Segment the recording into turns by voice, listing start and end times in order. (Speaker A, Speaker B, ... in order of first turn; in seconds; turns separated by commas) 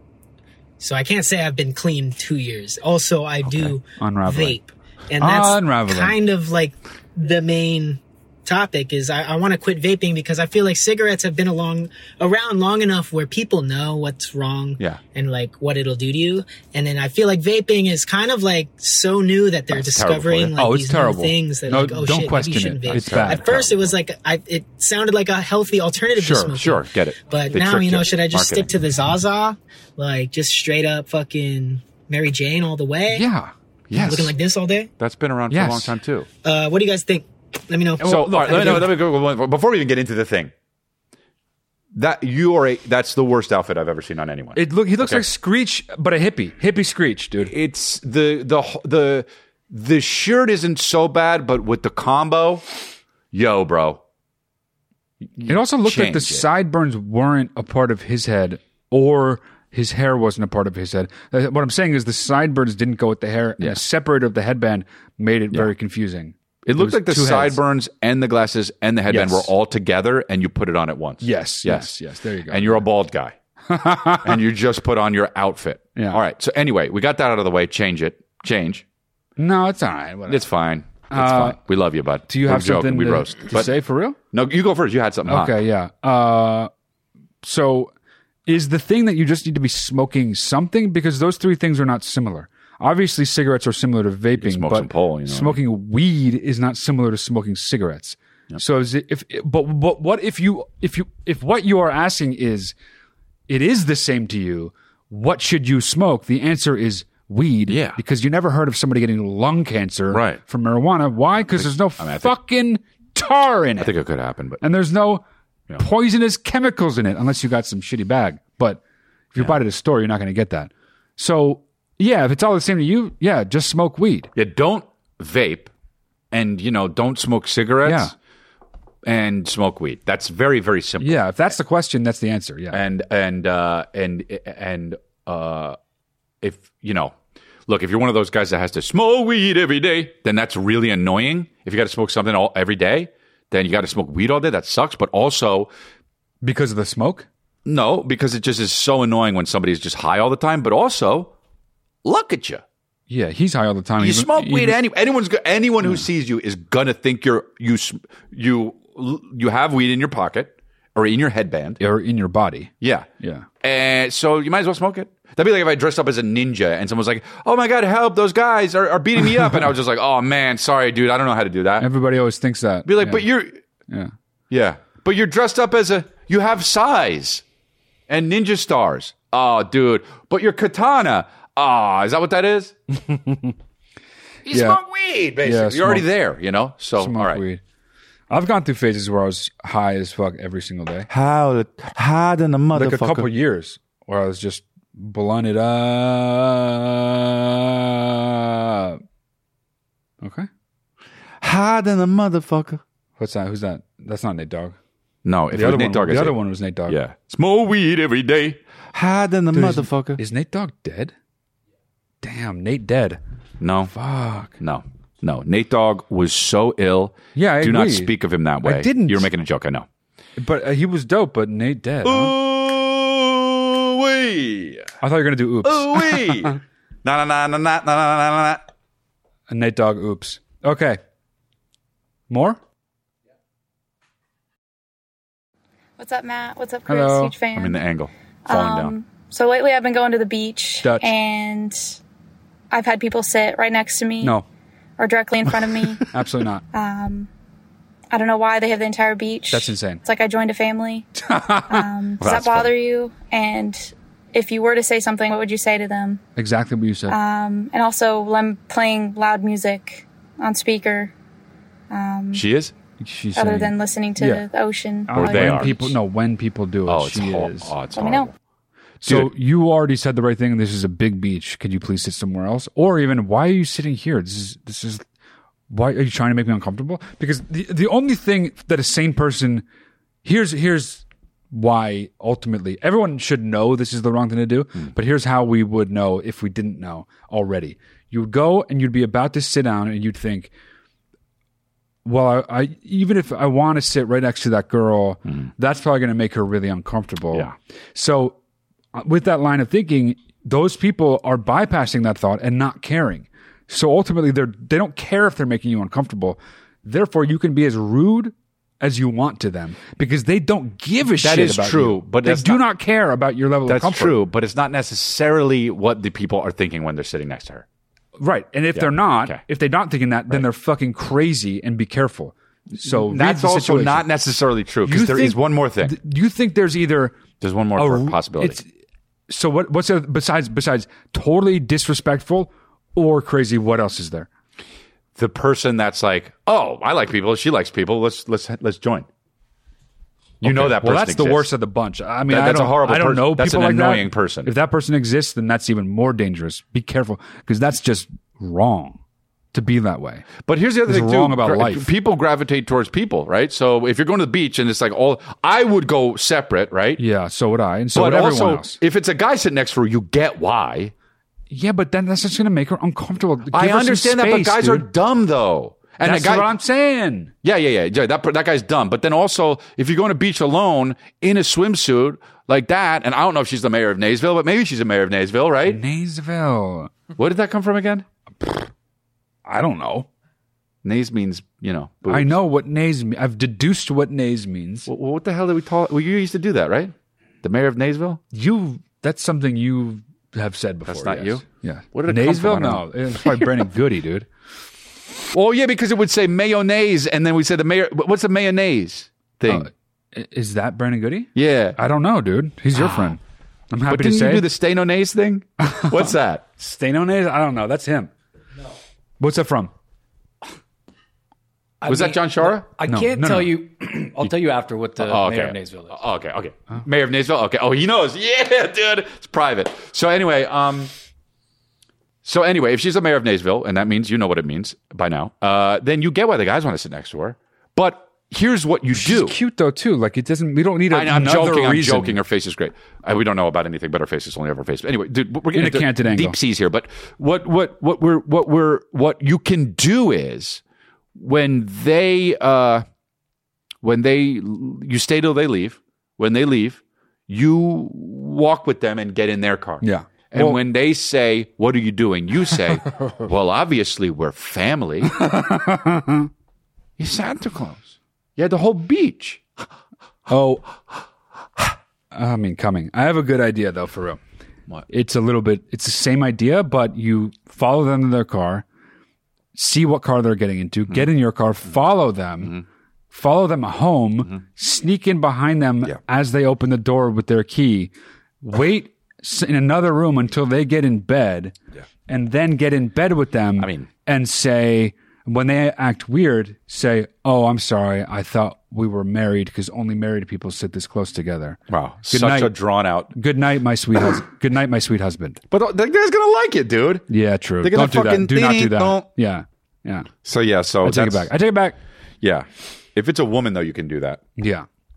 Speaker A: 0.8-33.3, Speaker B: 3.4-3.8, Speaker C: 4.0-4.6, Speaker C: 5.2-6.2, Speaker B: 19.7-20.5, Speaker C: 20.6-23.6, Speaker B: 22.9-23.9, Speaker B: 26.2-28.7, Speaker C: 33.1-34.3, Speaker B: 33.9-34.3, Speaker A: 34.0-34.9, Speaker B: 35.0-36.3, Speaker C: 35.5-36.0, Speaker A: 36.4-38.8, Speaker C: 38.0-38.9, Speaker B: 38.0-40.5, Speaker B: 41.9-45.2, Speaker C: 44.5-47.5, Speaker B: 47.4-52.6, Speaker B: 53.3-54.0, Speaker B: 55.4-56.5, Speaker C: 55.5-67.6, Speaker B: 66.6-71.9, Speaker C: 69.1-69.5, Speaker C: 71.2-72.8, Speaker B: 72.5-73.3, Speaker C: 73.7-74.4, Speaker B: 74.2-78.8, Speaker C: 79.4-80.5, Speaker B: 80.3-83.7, Speaker C: 81.1-81.6, Speaker C: 82.3-84.2, Speaker B: 84.3-85.6, Speaker C: 85.2-86.7, Speaker C: 87.4-87.9, Speaker C: 88.5-102.7, Speaker B: 94.4-95.6, Speaker C: 103.5-113.9, Speaker B: 107.7-108.0, Speaker B: 110.1-110.4, Speaker B: 111.5-112.3, Speaker B: 113.8-114.6, Speaker C: 114.6-115.2, Speaker C: 115.8-118.8, Speaker C: 119.3-124.3, Speaker B: 124.3-125.7, Speaker B: 126.3-128.1, Speaker C: 127.8-128.1, Speaker B: 129.0-131.2, Speaker C: 131.0-132.8, Speaker B: 132.7-135.8, Speaker B: 136.4-137.1, Speaker B: 137.7-145.7, Speaker C: 146.4-147.3, Speaker B: 147.6-151.3, Speaker B: 152.0-152.6, Speaker C: 153.1-154.8, Speaker B: 154.0-161.8, Speaker C: 161.8-163.4, Speaker B: 162.8-163.1, Speaker B: 163.6-171.9, Speaker C: 171.8-173.2, Speaker B: 172.8-173.6, Speaker B: 174.5-177.4, Speaker B: 178.1-182.7, Speaker C: 182.9-183.5, Speaker B: 184.4-187.4, Speaker C: 184.5-184.8, Speaker C: 185.4-186.1, Speaker C: 187.0-187.6, Speaker C: 188.3-191.1, Speaker B: 191.1-193.3, Speaker C: 192.7-199.0, Speaker C: 200.2-200.5, Speaker B: 201.4-202.8, Speaker C: 203.2-204.8, Speaker B: 205.2-210.2, Speaker C: 205.5-207.0, Speaker C: 209.5-211.1, Speaker C: 212.2-213.2, Speaker B: 213.6-213.9, Speaker C: 213.8-214.6, Speaker B: 214.6-219.9, Speaker C: 217.3-219.3, Speaker C: 220.4-222.3, Speaker B: 222.0-224.9, Speaker C: 225.0-226.6, Speaker B: 225.6-228.6, Speaker C: 229.5-231.0, Speaker C: 232.3-232.6, Speaker D: 236.0-237.8, Speaker C: 236.9-237.3, Speaker B: 237.5-238.9, Speaker D: 238.4-242.0, Speaker C: 240.8-241.1, Speaker D: 242.7-244.4, Speaker C: 244.2-244.4, Speaker D: 245.0-246.0, Speaker C: 246.1-246.6, Speaker D: 246.7-247.3, Speaker D: 248.1-251.1, Speaker C: 249.5-250.0, Speaker C: 251.2-251.9, Speaker D: 251.7-256.2, Speaker B: 252.2-252.7, Speaker C: 256.4-257.2, Speaker D: 257.1-261.1, Speaker D: 261.9-262.4, Speaker B: 262.3-262.7, Speaker C: 263.0-264.4, Speaker D: 263.4-265.6, Speaker C: 265.1-267.7, Speaker B: 265.1-265.9, Speaker B: 266.9-268.3, Speaker D: 267.9-268.3, Speaker B: 269.0-269.3, Speaker C: 269.0-275.0, Speaker C: 275.7-279.6, Speaker C: 280.2-290.5, Speaker C: 292.0-298.4, Speaker C: 298.9-314.2, Speaker B: 311.2-312.6, Speaker B: 313.6-317.6, Speaker C: 318.2-324.1, Speaker B: 318.7-319.4, Speaker B: 322.8-325.9, Speaker C: 324.8-327.2, Speaker B: 327.4-328.6, Speaker C: 327.8-328.6, Speaker C: 329.3-334.3, Speaker B: 335.1-339.1, Speaker B: 340.4-341.5, Speaker C: 340.4-349.0, Speaker B: 342.3-344.5, Speaker C: 349.5-350.3, Speaker B: 350.4-357.0, Speaker C: 350.9-351.9, Speaker C: 357.0-358.8, Speaker B: 357.9-360.9, Speaker C: 361.5-364.9, Speaker B: 363.5-366.5, Speaker C: 366.0-367.3, Speaker B: 367.4-375.8, Speaker C: 375.7-376.9, Speaker B: 377.2-378.1, Speaker C: 379.4-380.1, Speaker B: 380.8-382.4, Speaker C: 382.1-384.9, Speaker B: 384.9-388.2, Speaker C: 388.3-394.3, Speaker B: 390.9-393.4, Speaker B: 395.3-399.7, Speaker C: 399.4-403.2, Speaker B: 401.3-401.8, Speaker B: 402.7-403.2, Speaker C: 403.7-404.5, Speaker B: 403.9-406.4, Speaker C: 405.7-408.1, Speaker C: 409.2-409.7, Speaker E: 411.8-416.0, Speaker B: 411.9-412.7, Speaker C: 412.8-413.5, Speaker B: 415.0-420.9, Speaker B: 422.2-429.4, Speaker C: 428.9-432.2, Speaker B: 430.9-440.6, Speaker C: 435.5-436.4, Speaker B: 441.1-442.8, Speaker B: 443.8-455.1, Speaker C: 449.8-450.6, Speaker C: 455.1-456.3, Speaker B: 457.0-459.4, Speaker C: 460.3-460.6, Speaker C: 462.1-464.2, Speaker C: 464.9-468.6, Speaker C: 469.5-472.6, Speaker C: 473.1-481.5, Speaker C: 482.1-492.5, Speaker B: 483.6-483.9, Speaker B: 491.7-493.1, Speaker C: 493.1-495.4, Speaker B: 495.5-497.1, Speaker C: 497.1-500.1, Speaker B: 497.6-499.1, Speaker B: 500.2-501.3, Speaker C: 500.8-501.8, Speaker B: 502.2-504.2, Speaker C: 504.4-504.6